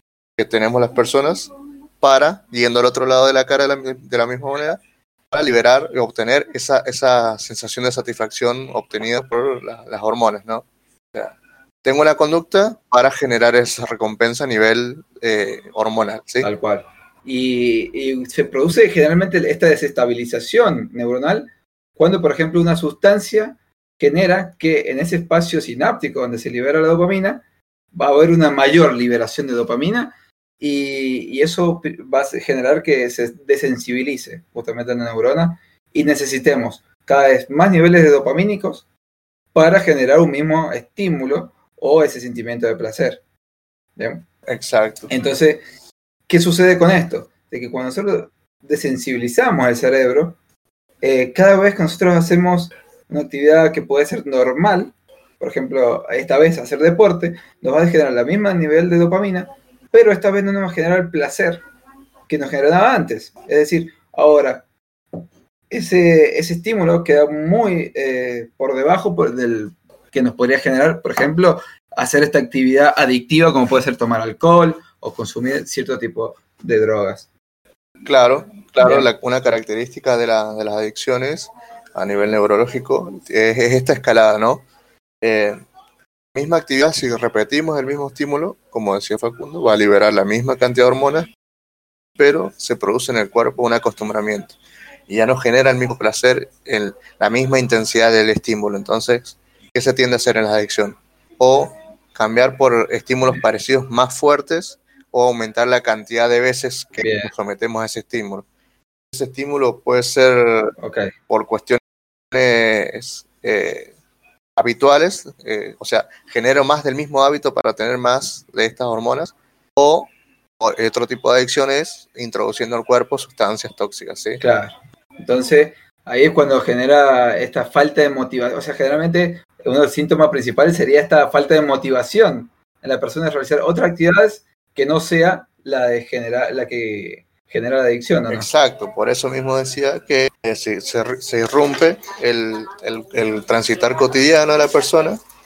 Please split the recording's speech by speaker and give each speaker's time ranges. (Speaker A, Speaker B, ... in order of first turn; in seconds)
Speaker A: 0.4-16.5, 44.5-45.1, 78.0-84.7, 85.2-85.6, 86.3-91.3, 92.2-94.5, 95.1-108.5, 109.1-110.8, 111.3-111.8, 112.3-113.9, 114.5-124.4, 138.3-145.2
Speaker B: 16.4-27.4, 27.9-38.8, 39.5-43.2, 44.0-44.2, 45.1-45.6, 46.3-50.4, 51.0-61.6, 62.3-64.6, 65.7-77.3, 78.8-79.1, 107.0-107.3, 110.8-111.1, 124.4-138.5